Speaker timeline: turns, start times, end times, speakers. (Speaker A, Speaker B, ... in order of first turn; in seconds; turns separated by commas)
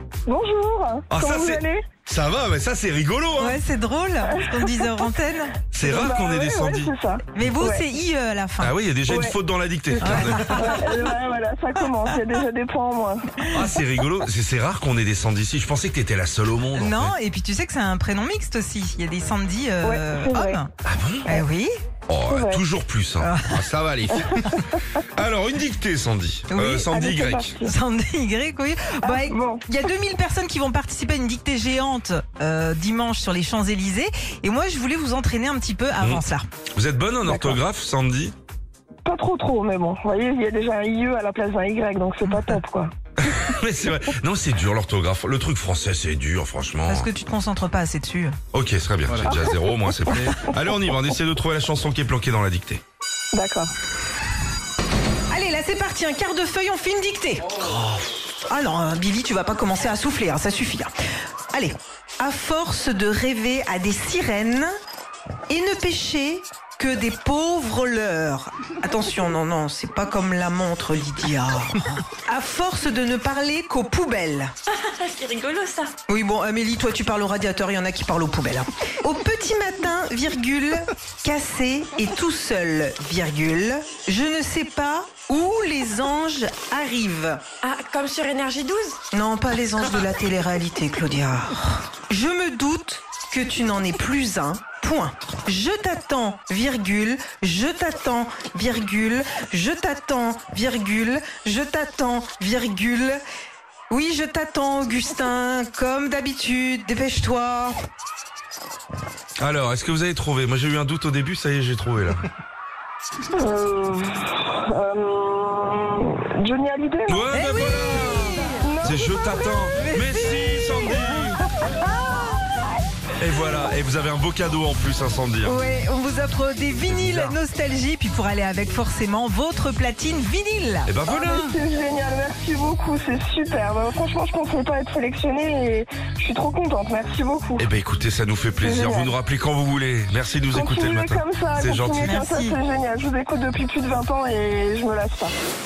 Speaker A: 0.2-1.9, Speaker B: 1.1-3.6, Speaker C: 3.4-6.1, Speaker A: 4.2-5.0, Speaker B: 5.7-6.9, Speaker A: 5.8-7.8, Speaker C: 7.3-8.7, Speaker B: 8.6-10.8, Speaker A: 9.1-9.4, Speaker C: 10.0-10.8, Speaker A: 10.6-13.4, Speaker C: 11.8-12.2, Speaker B: 13.4-17.1, Speaker C: 16.7-20.7, Speaker A: 19.8-20.6, Speaker B: 20.8-21.3, Speaker C: 21.2-21.7, Speaker B: 22.1-27.6, Speaker A: 22.2-22.6, Speaker C: 23.2-23.7, Speaker C: 24.3-24.6, Speaker C: 26.5-26.9, Speaker A: 26.9-27.7, Speaker C: 27.6-36.5, Speaker A: 29.0-29.6, Speaker B: 36.7-38.3, Speaker A: 37.2-37.6, Speaker A: 39.0-42.9, Speaker C: 42.2-42.6, Speaker B: 43.2-47.1, Speaker C: 46.9-48.4, Speaker B: 48.5-52.8, Speaker A: 49.2-50.3, Speaker A: 53.3-53.7, Speaker C: 55.3-57.5, Speaker B: 57.6-58.0, Speaker C: 58.5-60.9, Speaker C: 61.5-64.7, Speaker C: 65.5-74.5, Speaker D: 74.7-75.9, Speaker C: 76.1-87.4, Speaker D: 87.6-89.0, Speaker C: 89.1-103.2, Speaker C: 103.9-107.8, Speaker B: 109.4-112.2, Speaker A: 113.3-117.3, Speaker B: 117.0-121.4, Speaker C: 117.3-118.7, Speaker A: 118.6-119.7, Speaker C: 119.7-122.4, Speaker B: 123.2-125.6, Speaker C: 125.5-131.5, Speaker B: 126.9-127.4, Speaker B: 130.9-131.5, Speaker A: 131.0-137.7, Speaker B: 137.6-142.2, Speaker A: 138.6-139.1, Speaker A: 140.5-145.3, Speaker C: 142.0-142.6